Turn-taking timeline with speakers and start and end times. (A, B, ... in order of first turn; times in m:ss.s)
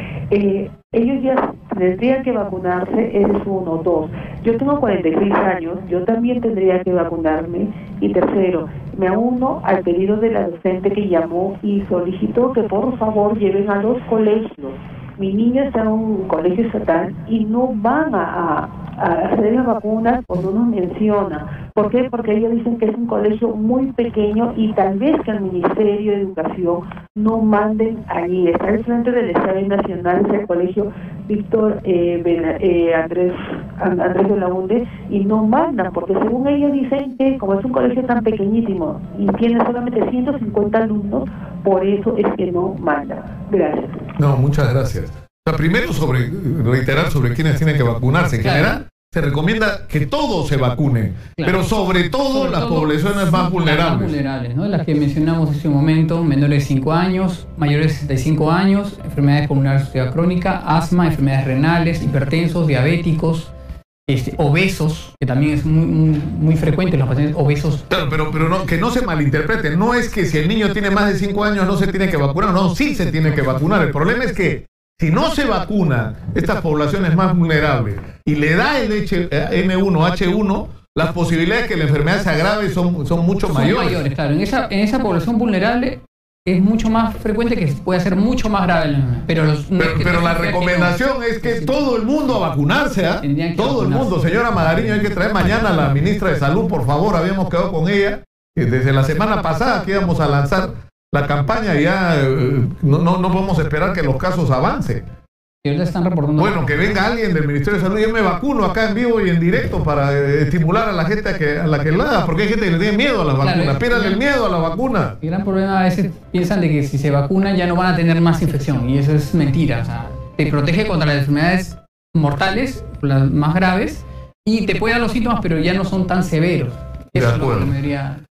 0:00.3-0:44.0 A
0:44.2-0:54.2 B
0:48.4-0:48.8 C
0:51.4-0:51.7 C
0:52.2-1:03.5 C
1:04.1-1:07.9 C
1:07.9-1:24.0 B
1:23.5-1:31.8 C
1:29.8-1:45.0 B
1:33.2-1:34.2 C
1:45.6-1:47.0 C
1:46.4-1:55.2 B
1:53.4-1:54.2 C
1:55.2-2:08.2 C
2:07.2-2:07.8 B